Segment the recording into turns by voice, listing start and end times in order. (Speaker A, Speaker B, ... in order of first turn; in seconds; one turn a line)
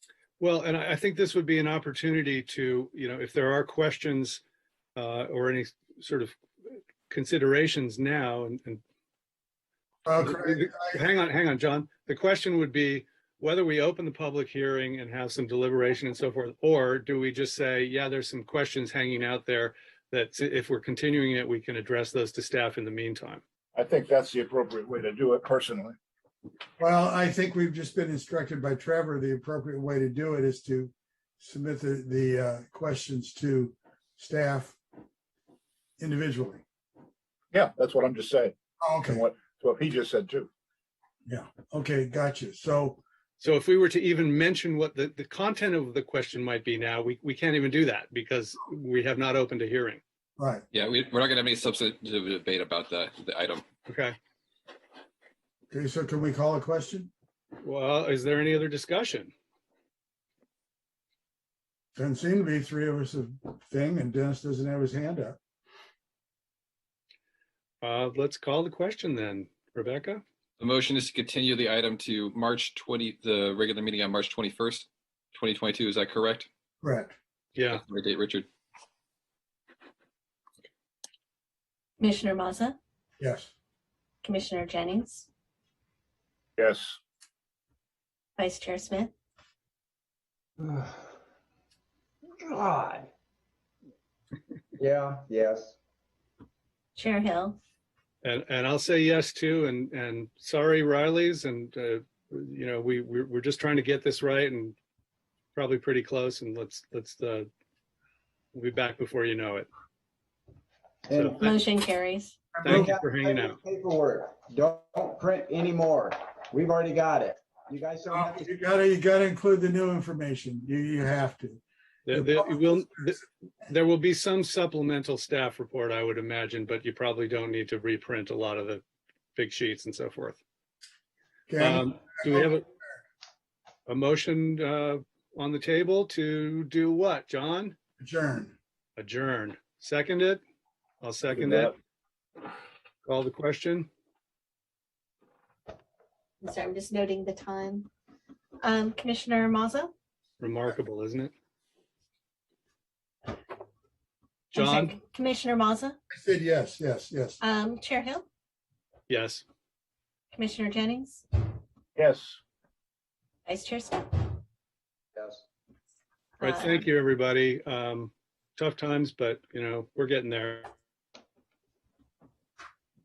Speaker A: 0.4-4.4
Speaker A: 5.0-6.3
Speaker A: 7.1-8.8
Speaker B: 10.1-11.0
Speaker A: 10.2-23.4
Speaker C: 23.8-26.0
Speaker B: 26.8-34.8
Speaker B: 36.0-36.6
Speaker C: 37.5-40.5
Speaker B: 38.8-39.2
Speaker B: 41.3-43.0
Speaker A: 43.4-50.0
Speaker B: 50.4-50.6
Speaker D: 50.7-53.6
Speaker A: 53.9-54.2
Speaker B: 55.7-57.1
Speaker A: 57.6-59.3
Speaker B: 62.0-65.4
Speaker A: 67.8-70.2
Speaker D: 70.6-76.5
Speaker B: 76.8-77.1
Speaker A: 77.5-77.8
Speaker D: 77.7-78.5
Speaker E: 82.0-82.8
Speaker B: 83.2-83.5
Speaker E: 84.2-85.3
Speaker C: 86.6-87.0
Speaker E: 88.4-89.1
Speaker F: 90.6-91.0
Speaker F: 92.4-93.1
Speaker F: 94.8-95.8
Speaker E: 97.0-97.6
Speaker A: 98.2-104.8
Speaker A: 105.5-107.5
Speaker A: 108.5-109.7
Speaker F: 111.1-111.6
Speaker A: 111.1-111.5
Speaker E: 111.4-112.6
Speaker B: 112.6-112.9
Speaker A: 112.6-113.6
Speaker F: 112.6-118.5
Speaker B: 118.1-123.1
Speaker A: 122.1-128.8
Speaker A: 129.4-130.4
Speaker B: 131.5-132.6
Speaker A: 131.6-132.6
Speaker A: 133.9-137.8
Speaker B: 138.0-138.6
Speaker A: 139.0-140.4
Speaker A: 141.0-141.7
Speaker C: 141.3-141.7
Speaker A: 143.1-143.9
Speaker E: 146.4-147.9
Speaker E: 148.6-149.9
Speaker A: 150.4-151.3
Speaker A: 154.5-154.9
Speaker E: 154.5-156.0
Speaker B: 156.1-157.4
Speaker E: 157.4-158.3
Speaker A: 159.1-159.4
Speaker E: 160.3-161.2
Speaker C: 162.0-162.4
Speaker E: 163.5-164.4
Speaker F: 165.2-165.4
Speaker E: 166.4-166.8
Speaker A: 166.4-170.7